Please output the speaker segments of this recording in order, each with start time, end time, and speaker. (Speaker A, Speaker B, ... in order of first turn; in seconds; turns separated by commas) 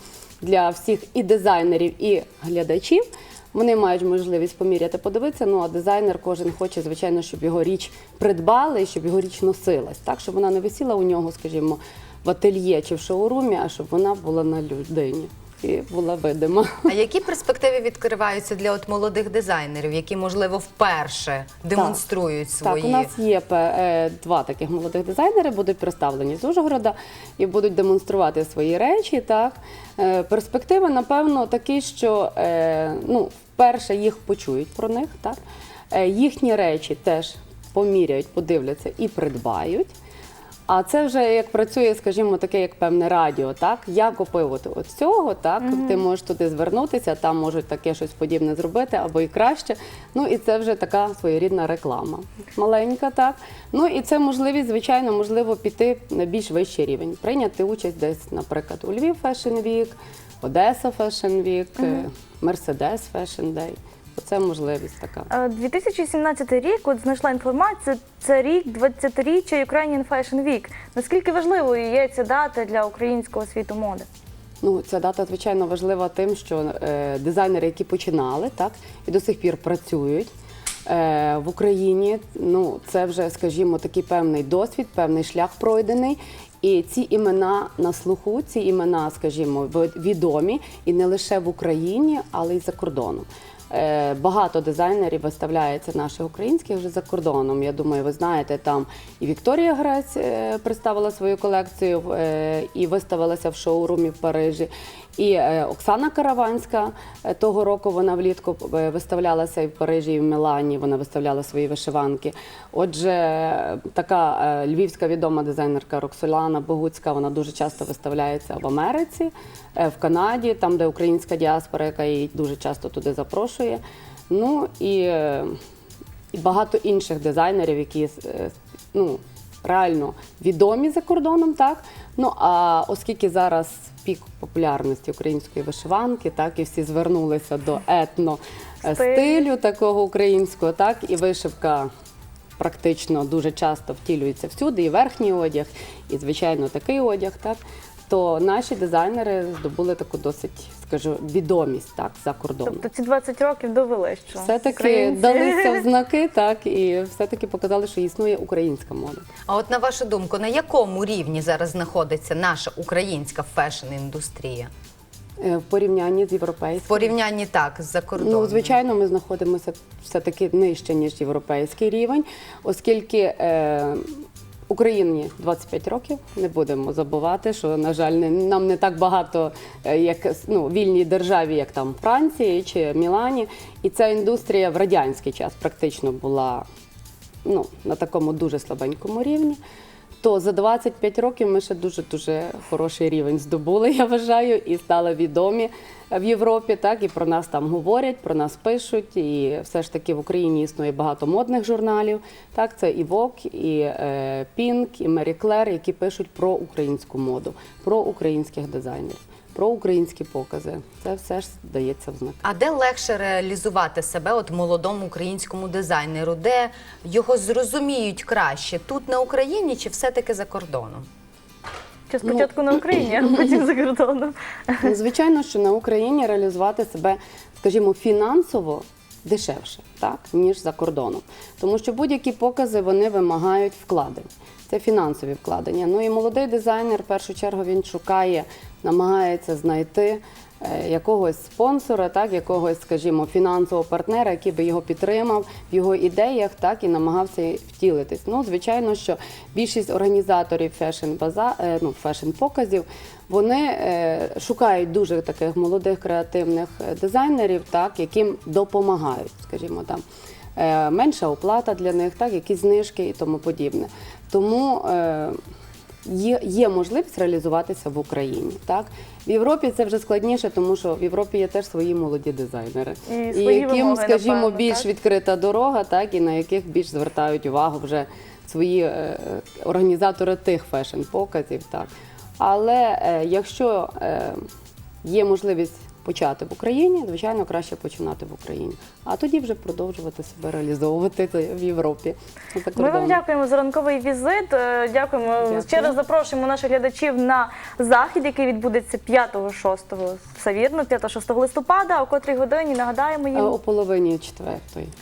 Speaker A: 0.4-16.9, Speaker B: 16.9-23.1, Speaker A: 21.7-22.0, Speaker A: 22.6-35.4, Speaker A: 35.9-39.9, Speaker A: 40.7-65.3, Speaker C: 45.6-46.0, Speaker C: 65.3-74.1, Speaker A: 74.6-80.3, Speaker A: 80.8-125.5, Speaker A: 126.3-141.9, Speaker C: 138.8-139.4, Speaker A: 142.6-152.8, Speaker C: 152.6-155.8, Speaker A: 154.3-159.3, Speaker B: 159.5-164.7, Speaker A: 165.4-167.1, Speaker B: 166.8-168.7, Speaker A: 168.2-186.6, Speaker A: 187.4-189.6, Speaker A: 190.2-212.4, Speaker B: 212.4-221.1, Speaker C: 222.1-224.9, Speaker A: 222.2-223.3, Speaker A: 224.8-260.0, Speaker A: 260.6-265.4, Speaker A: 266.0-284.4, Speaker C: 273.1-274.9, Speaker A: 285.0-293.2, Speaker C: 292.8-303.5, Speaker A: 295.4-296.0, Speaker A: 303.3-304.9